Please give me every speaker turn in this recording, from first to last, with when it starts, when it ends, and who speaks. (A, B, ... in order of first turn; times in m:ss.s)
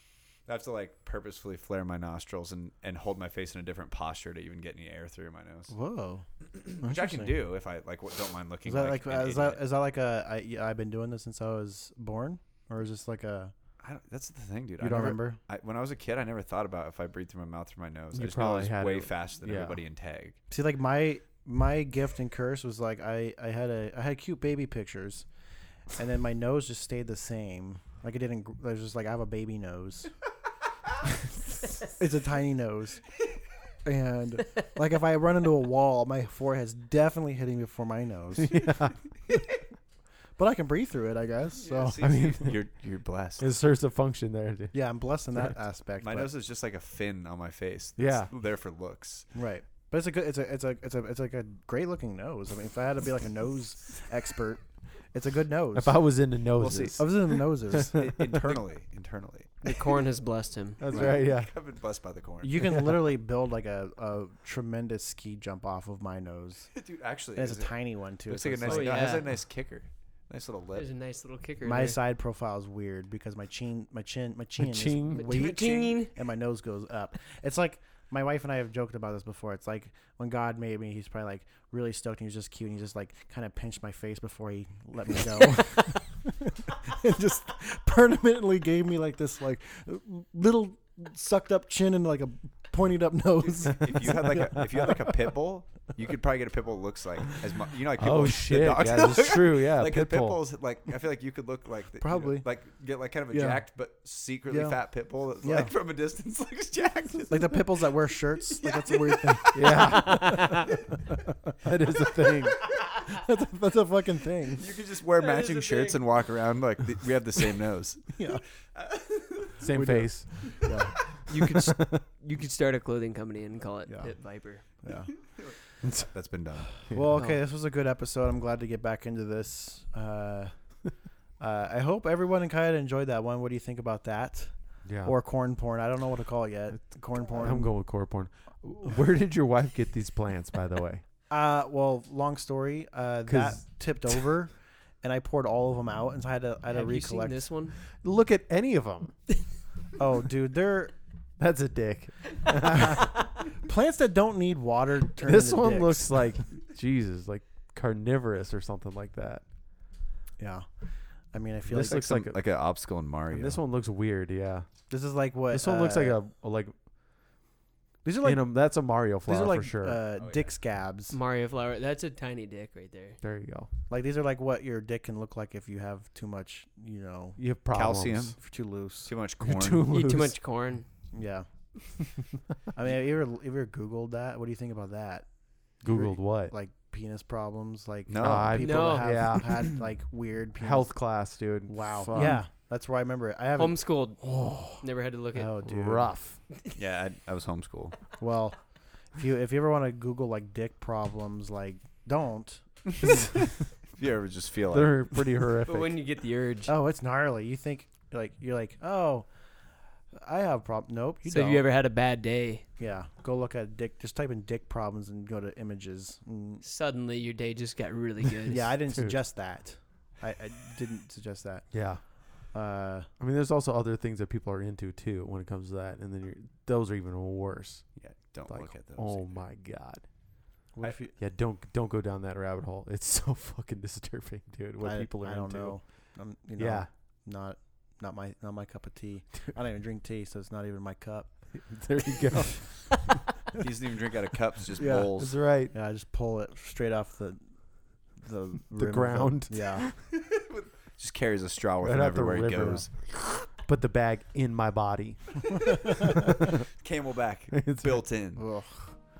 0:00.5-0:05.7 A
0:05.7-0:06.2 B
0:06.5-0:09.6 A
0:06.8-0:07.4 B
0:08.6-0:13.5 B
0:13.8-0:20.4 A
0:14.8-0:15.4 B
0:18.1-0:19.8 C
0:20.5-0:25.2 B
0:25.9-0:30.1 B
0:31.8-0:33.0 B
0:33.8-0:38.8 B
0:38.4-0:39.0 C
0:40.4-0:42.0 B
0:41.6-0:43.4 A
0:42.0-0:42.6 C
0:43.4-0:44.8 C
0:44.7-0:46.3 B
0:46.0-0:49.3 A
0:48.0-0:48.3 C
0:49.3-0:56.0 B
0:55.7-0:58.5 C
0:56.6-0:57.0 A
0:57.0-0:58.0 B
0:57.8-0:59.6 A
0:59.6-1:00.8 D
1:00.8-1:01.5 C
1:00.9-1:02.6 A
1:02.4-1:06.7 B
1:02.6-1:03.1 C
1:06.8-1:07.7 A
1:07.3-1:09.2 B
1:08.3-1:10.9 A
1:08.6-1:09.3 D
1:10.7-1:12.0 D
1:11.6-1:35.1 B
1:14.6-1:15.3 C
1:15.1-1:16.1 D
1:15.4-1:15.8 A
1:33.4-1:47.7 A
1:33.8-1:34.9 C
1:38.0-1:40.4 C
1:42.0-1:42.4 B
1:43.3-1:43.6 B
1:44.5-1:44.8 B
1:45.4-1:45.7 B
1:47.3-1:51.1 B
1:48.4-1:49.8 A
1:49.5-1:50.5 C
1:49.8-1:50.8 D
1:51.6-1:52.6 C
1:52.7-1:54.7 B
1:54.6-1:58.2 A
1:55.1-1:56.1 D
1:58.1-1:58.4 B
1:58.7-1:59.7 A
1:59.6-2:00.3 C
1:59.7-2:01.4 B
2:01.3-2:04.6 D
2:01.5-2:02.0 C
2:03.9-2:04.1 B
2:04.8-2:05.1 B
2:05.8-2:06.1 C
2:06.1-2:06.8 A
2:06.8-2:10.5 B
2:07.1-2:07.4 D
2:11.4-2:14.5 B
2:14.8-2:15.1 C
2:15.0-2:17.7 B
2:17.3-2:21.0 C
2:21.3-2:27.4 B
2:23.3-2:24.2 C
2:26.7-2:27.8 D
2:28.0-2:29.1 C
2:30.0-2:30.9 B
2:31.4-2:33.1 C
2:32.8-2:36.4 B
2:35.2-2:39.4 C
2:40.4-2:40.7 B
2:41.3-2:42.0 B
2:41.7-2:42.4 C
2:41.7-2:43.6 A
2:43.3-2:44.7 C
2:44.9-2:46.2 B
2:45.5-2:46.7 C
2:48.0-2:48.5 B
2:48.2-2:50.0 C
2:49.3-2:51.2 B
2:50.1-2:50.5 A
2:51.1-2:53.2 D
2:53.2-2:53.7 C
2:53.9-2:57.4 B
2:57.4-2:58.4 C
2:57.7-2:58.4 A
2:58.4-2:59.1 B
2:59.0-3:00.0 A
2:59.4-3:00.4 C
2:59.9-3:00.8 D
3:01.1-3:01.5 B
3:02.7-3:05.3 B
3:05.8-3:06.5 C
3:05.9-3:10.9 B
3:08.1-3:08.6 A
3:08.2-3:09.7 C
3:08.6-3:09.1 D
3:10.6-3:12.4 C
3:11.7-3:13.8 B
3:13.6-3:14.2 D
3:14.2-3:14.8 C
3:14.8-3:15.6 D
3:15.3-3:16.1 B
3:15.6-3:16.4 C
3:16.7-3:18.0 A
3:18.2-3:18.6 B
3:19.1-3:22.6 B
3:23.0-3:23.4 A
3:23.9-3:25.2 A
3:24.7-3:25.9 C
3:25.6-3:26.7 D
3:26.6-3:29.3 B
3:30.2-3:31.6 B
3:31.3-3:32.6 D
3:32.8-3:36.6 B
3:36.6-3:38.7 D
3:38.5-3:41.8 B
3:38.9-3:39.2 C
3:41.7-3:42.0 C
3:42.5-3:43.1 B
3:43.2-3:47.8 C
3:48.0-3:49.4 A
3:48.5-3:50.0 C
3:50.7-3:51.1 B
3:51.2-3:55.8 C
3:54.8-4:01.3 B
3:56.6-3:56.9 C
4:01.5-4:02.8 C
4:02.3-4:02.6 B
4:03.6-4:05.4 A
4:04.8-4:05.1 B
4:05.2-4:05.7 C
4:05.7-4:07.4 B
4:08.2-4:09.9 B
4:08.8-4:09.9 C
4:10.1-4:12.9 A
4:11.8-4:15.4 C
4:15.7-4:16.1 B
4:16.8-4:18.4 A
4:17.5-4:18.0 C
4:18.4-4:18.9 B